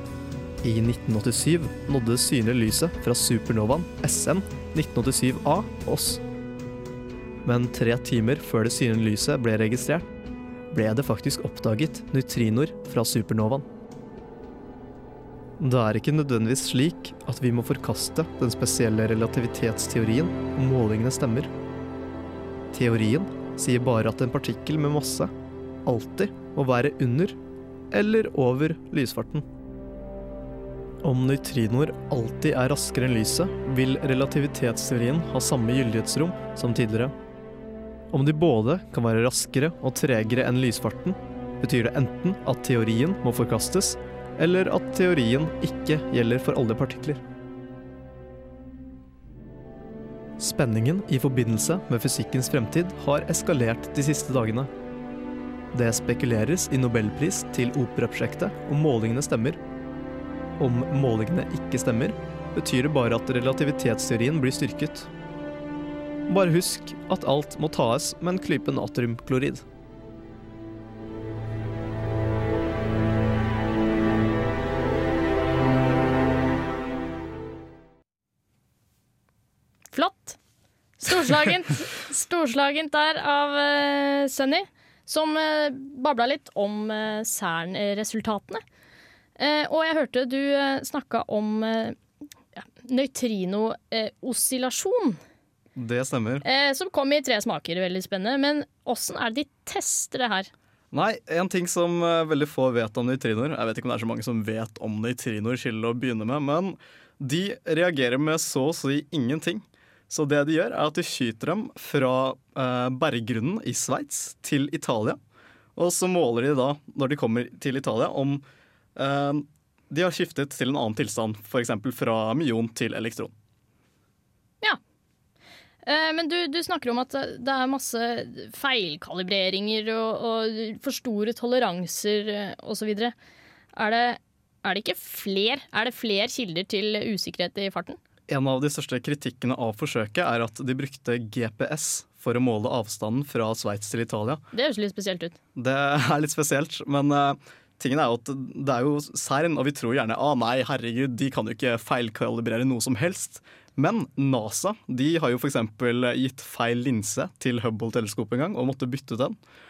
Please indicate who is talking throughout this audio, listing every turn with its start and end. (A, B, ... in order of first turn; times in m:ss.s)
0:00.6-0:06.2 A
0:07.4-0:10.1 A
0:10.7-0:13.6 A
0:15.6-0:21.5 A
0:22.7-0:25.3 A
0:25.8-0:27.4 A
0:27.9-0:29.4 A
0:31.0-0:37.1 A
0:38.1-0:47.2 A
0:50.4-0:54.7 A
0:55.7-0:59.6 A
1:00.6-1:05.1 A
1:06.3-1:09.6 A
1:19.9-1:20.4 B
1:21.0-1:28.6 B
1:29.4-1:32.0 B
1:32.5-1:35.2 B
1:35.8-1:36.4 C
1:36.4-1:40.5 B
1:40.9-1:55.2 C
1:55.8-1:58.4 C
1:59.0-2:03.3 C
2:05.8-2:13.1 B
2:13.7-2:18.0 B
2:18.3-2:24.4 C
2:24.5-2:25.3 B
2:25.6-2:39.4 C